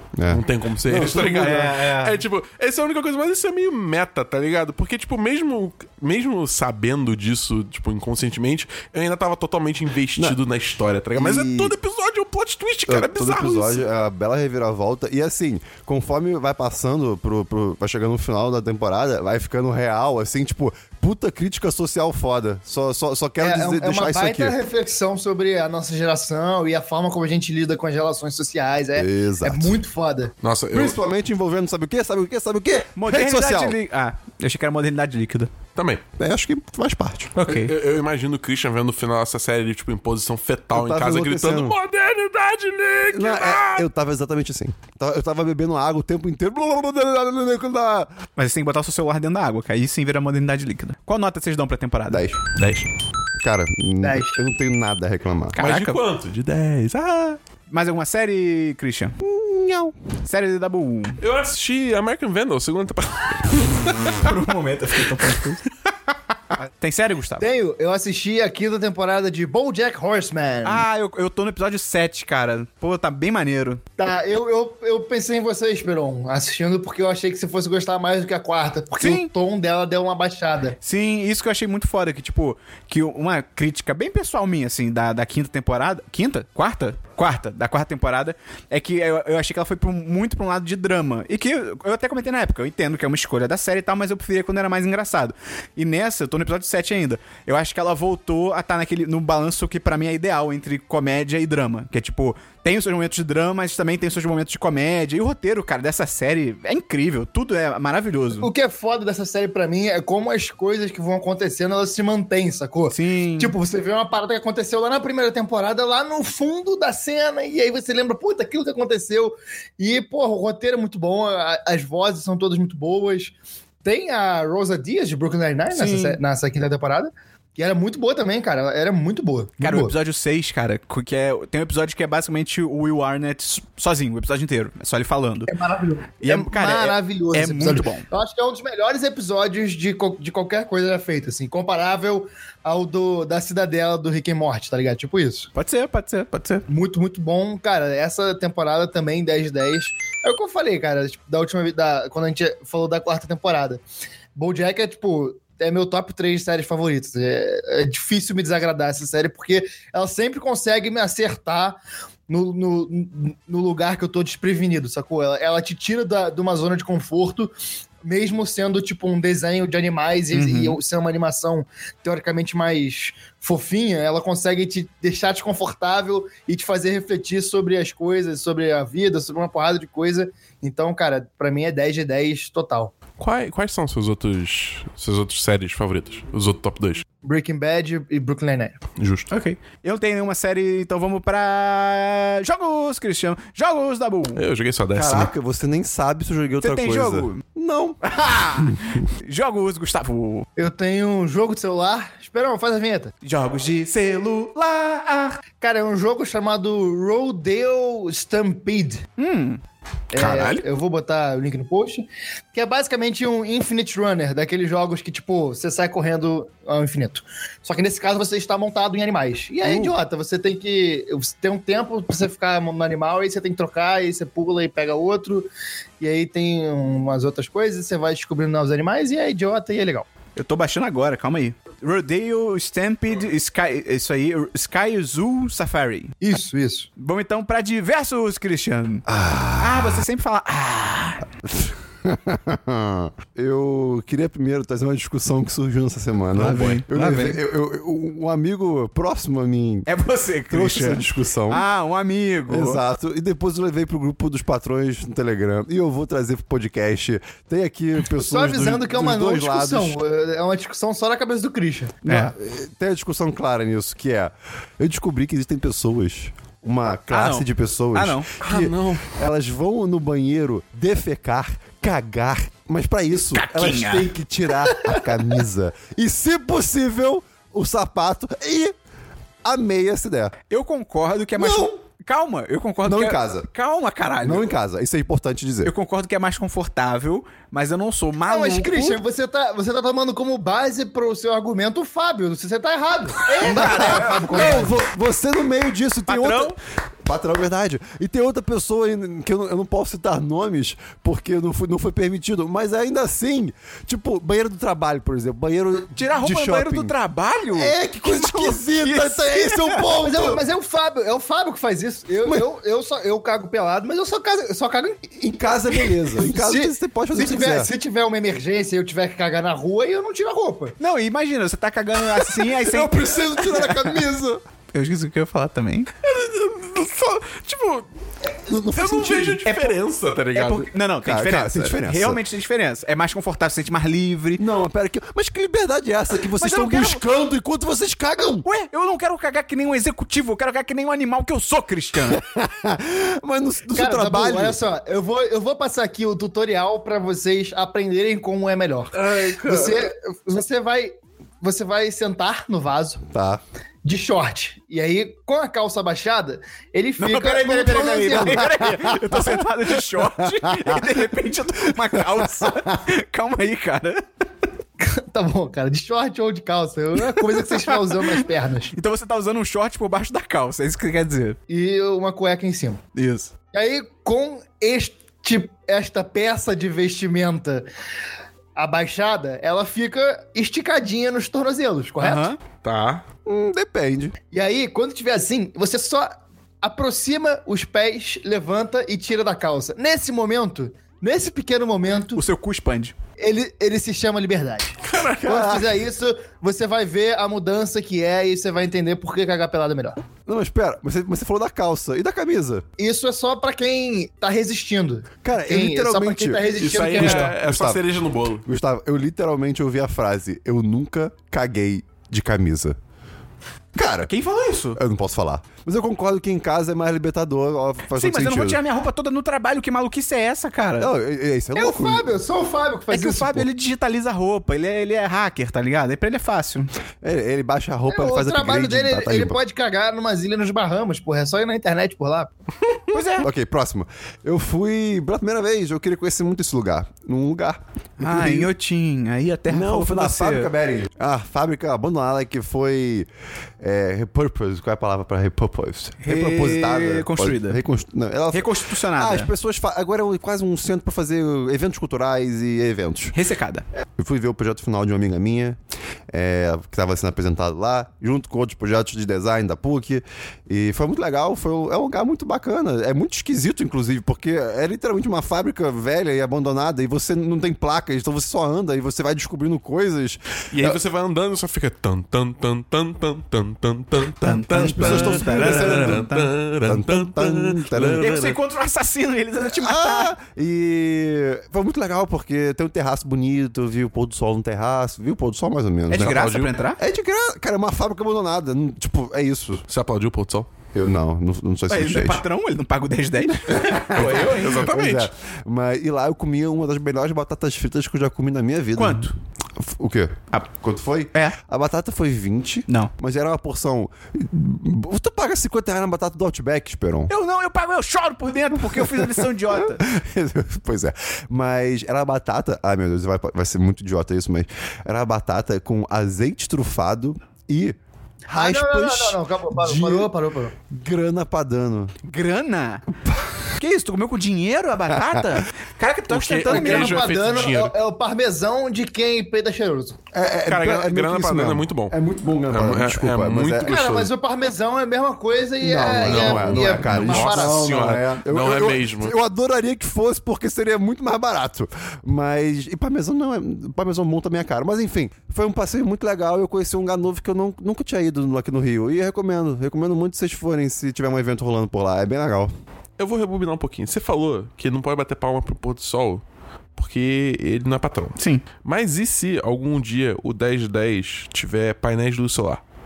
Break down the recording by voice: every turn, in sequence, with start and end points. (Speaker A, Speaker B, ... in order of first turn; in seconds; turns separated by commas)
Speaker A: 0.1-1.7, Speaker B: 0.3-13.8, Speaker C: 1.4-2.2, Speaker A: 11.2-11.7, Speaker A: 12.9-24.6, Speaker D: 23.4-30.3, Speaker A: 28.9-29.8, Speaker B: 30.4-31.0, Speaker A: 30.7-33.8, Speaker C: 33.0-35.5, Speaker B: 35.8-36.0, Speaker A: 36.2-37.3, Speaker B: 37.3-43.9, Speaker C: 37.4-37.7, Speaker A: 40.7-41.8, Speaker A: 43.1-48.1, Speaker C: 48.4-52.2, Speaker A: 52.1-52.4, Speaker B: 52.5-52.9, Speaker A: 53.4-55.6, Speaker D: 54.0-54.4, Speaker C: 55.5-56.0, Speaker B: 55.6-57.4, Speaker C: 57.7-59.2, Speaker A: 59.2-59.9, Speaker C: 60.2-61.2, Speaker B: 61.2-64.4, Speaker C: 64.0-65.6, Speaker B: 65.1-65.4, Speaker C: 66.5-67.4, Speaker D: 67.4-70.8, Speaker C: 70.6-73.8, Speaker D: 74.0-80.8, Speaker C: 79.0-79.3, Speaker C: 80.8-108.5, Speaker D: 108.3-123.3, Speaker C: 112.9-113.5, Speaker D: 123.8-129.9, Speaker C: 125.7-126.2, Speaker C: 129.6-135.5, Speaker D: 135.5-145.5, Speaker C: 136.2-138.1, Speaker C: 145.5-146.7, Speaker D: 146.7-153.8, Speaker D: 154.3-167.5, Speaker D: 168.0-182.9, Speaker C: 170.3-170.8, Speaker B: 183.2-187.0, Speaker D: 187.2-188.8, Speaker B: 189.0-189.3, Speaker C: 189.3-194.4, Speaker B: 194.3-195.3, Speaker A: 194.9-198.0, Speaker C: 196.6-197.4, Speaker C: 198.0-200.5, Speaker A: 198.5-198.9, Speaker D: 200.6-203.1, Speaker C: 203.2-205.4, Speaker D: 205.6-209.0, Speaker C: 209.2-209.6, Speaker D: 210.1-225.5, Speaker B: 210.1-210.6, Speaker C: 219.7-219.9, Speaker D: 226.0-230.1, Speaker C: 230.3-236.1, Speaker D: 236.2-236.9, Speaker C: 237.0-239.1, Speaker A: 239.1-240.0, Speaker C: 239.6-241.2, Speaker A: 241.4-249.9, Speaker C: 246.3-247.4, Speaker B: 246.4-246.8, Speaker C: 249.9-252.8, Speaker A: 250.5-251.6, Speaker A: 252.5-260.0, Speaker D: 258.1-262.0, Speaker C: 262.1-262.3, Speaker A: 262.1-278.7, Speaker C: 267.1-268.3, Speaker B: 268.4-269.1, Speaker C: 273.3-274.1, Speaker C: 274.7-275.1, Speaker A: 279.4-280.3, Speaker C: 280.5-284.5, Speaker A: 281.4-281.7, Speaker A: 282.8-283.5, Speaker A: 284.2-285.7, Speaker C: 285.6-289.0, Speaker D: 288.3-294.7, Speaker C: 293.2-294.7, Speaker A: 293.4-306.9, Speaker C: 296.1-296.6, Speaker C: 305.9-309.9, Speaker A: 307.5-310.4, Speaker D: 310.0-315.2, Speaker A: 315.2-317.7, Speaker D: 315.8-320.7, Speaker C: 320.8-324.0, Speaker A: 322.3-324.4, Speaker C: 324.7-325.9, Speaker B: 326.0-327.9, Speaker A: 328.4-329.4, Speaker B: 328.7-330.7, Speaker C: 329.4-329.8, Speaker C: 330.3-334.4, Speaker A: 331.0-332.2, Speaker A: 334.4-338.4, Speaker C: 336.4-337.0, Speaker C: 338.4-342.2, Speaker A: 342.1-344.6, Speaker D: 343.7-353.0, Speaker B: 349.1-349.7, Speaker A: 353.1-353.4, Speaker D: 353.8-358.5, Speaker C: 357.0-364.0, Speaker A: 358.1-360.9, Speaker A: 361.7-362.7, Speaker D: 364.8-368.7, Speaker C: 367.1-371.4, Speaker D: 371.5-372.8, Speaker C: 372.9-373.3, Speaker D: 373.5-377.6, Speaker D: 378.6-382.3, Speaker C: 382.0-382.4, Speaker B: 382.6-383.0, Speaker A: 383.2-384.1, Speaker D: 384.3-392.2, Speaker C: 392.1-392.9, Speaker D: 393.2-400.0, Speaker B: 394.8-395.5, Speaker A: 395.2-395.7, Speaker A: 400.2-402.6, Speaker D: 402.8-407.3, Speaker A: 405.2-407.8, Speaker B: 406.6-408.4, Speaker A: 408.4-412.8, Speaker A: 413.7-414.1, Speaker C: 414.0-414.8, Speaker A: 414.7-418.6, Speaker C: 417.9-420.9, Speaker A: 420.8-422.1, Speaker D: 421.6-423.4, Speaker C: 422.9-426.7, Speaker A: 427.0-429.4, Speaker D: 427.9-432.3, Speaker C: 432.9-433.3, Speaker A: 433.2-438.5, Speaker C: 438.0-440.5, Speaker A: 439.5-443.1, Speaker A: 443.6-453.1, Speaker C: 446.0-447.6, Speaker C: 448.3-449.3, Speaker C: 453.1-453.6, Speaker A: 454.0-455.6, Speaker A: 456.1-470.8, Speaker B: 470.5-478.4, Speaker C: 474.2-476.3, Speaker A: 474.6-476.1, Speaker A: 476.6-478.2, Speaker C: 477.9-480.1, Speaker A: 479.4-489.6, Speaker C: 485.9-486.8, Speaker B: 486.1-486.5, Speaker B: 489.7-490.5, Speaker A: 490.7-492.2, Speaker C: 491.7-494.6, Speaker A: 493.5-507.1, Speaker B: 493.9-495.1, Speaker C: 498.8-499.1, Speaker C: 507.1-509.8, Speaker A: 508.6-520.1, Speaker D: 518.3-520.5, Speaker A: 520.7-521.9, Speaker C: 522.0-522.9, Speaker C: 523.6-527.1, Speaker A: 525.1-525.4, Speaker B: 526.1-527.7, Speaker D: 526.5-530.0, Speaker A: 530.1-533.8, Speaker B: 530.5-531.9, Speaker B: 532.5-534.1, Speaker D: 533.6-537.6, Speaker A: 535.6-552.5, Speaker B: 535.9-539.1, Speaker B: 553.0-556.2, Speaker B: 556.8-562.6, Speaker C: 558.2-558.4